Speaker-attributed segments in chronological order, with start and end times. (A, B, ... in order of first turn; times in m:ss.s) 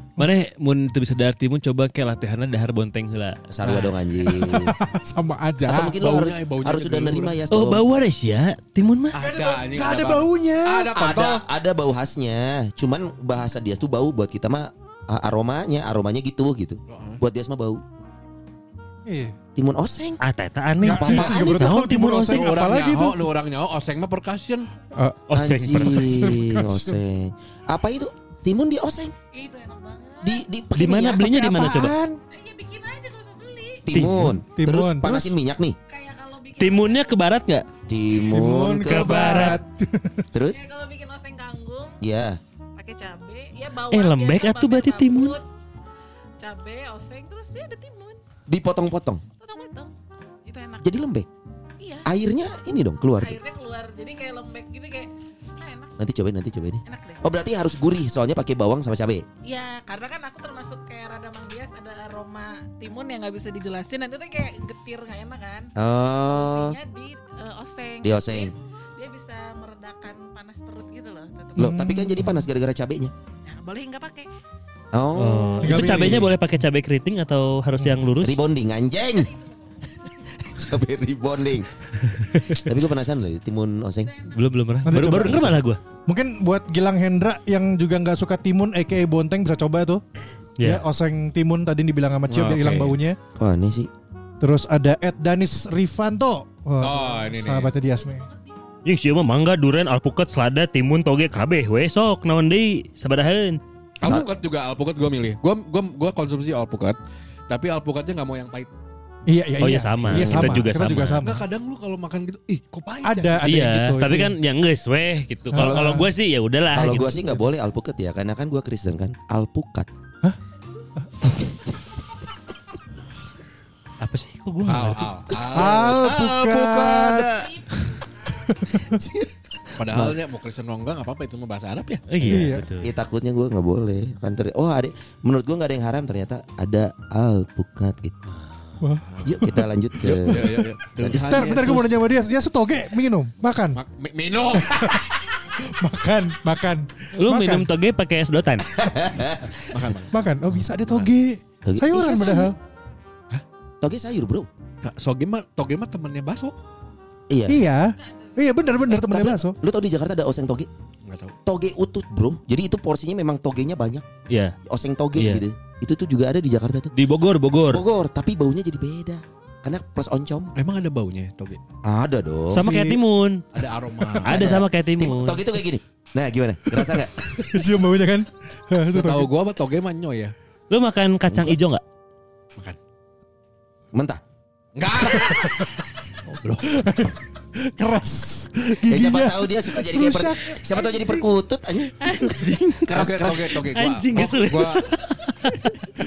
0:00.2-0:03.4 A
0:03.5-0:04.7 B
0:03.6-0:03.9 C
0:04.2-0:05.9 D
0:05.7-0:07.4 C
0:05.7-0:07.9 B
0:07.5-0:09.2 A
0:09.1-0:11.4 C
0:09.2-0:10.9 D
0:10.9-0:17.8 B
0:16.9-0:17.2 C
0:19.0-0:19.4 D
0:19.6-0:20.2 B
0:20.2-0:22.5 A
0:20.8-0:23.2 D
0:20.8-0:21.8 B
0:22.3-0:24.7 C
0:24.9-0:27.0 D
0:25.3-0:26.3 A
0:25.3-0:29.1 B
0:29.3-0:30.4 E
0:30.2-0:31.6 B
0:30.7-0:31.9 A
0:31.3-0:32.2 D
0:32.3-0:33.9 E
0:33.8-0:35.8 B
0:33.9-0:34.3 A
0:34.2-0:35.3 D
0:35.9-0:37.1 E
0:36.6-0:37.6 A
0:37.9-0:39.6 B
0:38.3-0:40.3 D
0:38.8-0:39.6 A
0:40.3-0:40.6 B
0:40.3-0:42.0 E
0:42.0-0:42.4 B
0:42.7-0:45.4 E
0:43.9-0:45.4 A
0:46.4-0:48.2 E
0:48.5-0:49.2 B
0:49.4-0:49.9 E
0:50.4-0:50.9 E
0:50.8-0:51.3 B
0:51.8-0:52.1 E
0:52.0-0:53.4 B
0:53.2-0:55.9 E
0:56.0-0:59.2 B
0:56.8-0:57.3 E
0:59.4-1:05.7 E
1:05.8-1:06.8 B
1:06.3-1:11.8 E
1:08.0-1:08.5 B
1:11.6-1:12.4 D
1:11.6-1:13.1 B
1:13.4-1:14.3 E
1:14.9-1:16.2 B
1:15.1-1:18.4 A
1:15.6-1:16.4 D
1:18.2-1:19.3 B
1:20.4-1:21.7 B
1:22.0-1:22.7 A
1:22.4-1:24.1 B
1:24.3-1:25.8 A
1:24.8-1:30.0 D
1:30.6-1:30.8 A
1:30.6-1:33.2 D
1:32.3-1:33.0 C
1:33.3-1:33.9 B
1:34.4-1:38.2 D
1:36.8-1:37.7 C
1:38.8-1:43.6 A
1:44.0-1:47.0 C
1:47.5-1:48.7 C
1:49.3-1:51.4 D
1:49.6-1:51.2 A
1:50.1-1:50.7 B
1:51.2-1:53.6 C
1:53.0-1:54.3 D
1:53.4-1:57.2 A
1:55.5-1:56.1 B
1:55.5-1:56.1 D
1:56.7-1:59.9 B
2:04.0-2:05.1 A
2:04.6-2:07.5 C
2:05.5-2:07.3 D
2:05.5-2:06.1 B
2:07.4-2:07.8 E
2:08.5-2:09.0 D
2:08.7-2:10.1 B
2:09.8-2:12.1 C
2:12.1-2:12.9 A
2:12.2-2:12.7 D
2:12.8-2:18.2 B
2:18.8-2:19.7 D
2:19.2-2:21.4 B
2:20.0-2:22.0 C
2:20.3-2:23.8 D
2:23.7-2:25.0 C
2:24.6-2:25.0 D
2:25.7-2:27.7 D
2:27.1-2:28.7 A
2:28.7-2:29.7 B
2:29.7-2:31.1 C
2:30.1-2:32.6 D
2:31.6-2:32.5 B
2:33.8-2:34.5 B
2:34.8-2:36.5 C
2:37.3-2:37.6 B
2:37.5-2:39.5 D
2:38.9-2:40.7 B
2:41.0-2:41.3 C
2:41.4-2:44.0 B
2:44.3-2:44.6 A
2:44.6-2:46.9 B
2:45.2-2:45.4 A
2:46.9-2:47.8 A
2:47.7-2:50.5 B
2:50.6-2:51.6 C
2:51.8-2:52.7 B
2:52.5-2:53.4 A
2:52.6-2:53.0 D
2:53.5-2:54.5 C
2:54.2-2:55.4 A
2:54.2-2:57.2 B
2:56.8-2:59.3 D
2:58.9-3:00.3 C
3:00.7-3:01.8 A
3:03.9-3:04.2 B
3:04.7-3:05.7 C
3:06.2-3:06.9 C
3:06.6-3:10.7 D
3:08.8-3:12.3 B
3:12.0-3:13.0 A
3:12.8-3:13.6 B
3:12.9-3:14.9 C
3:13.7-3:15.8 A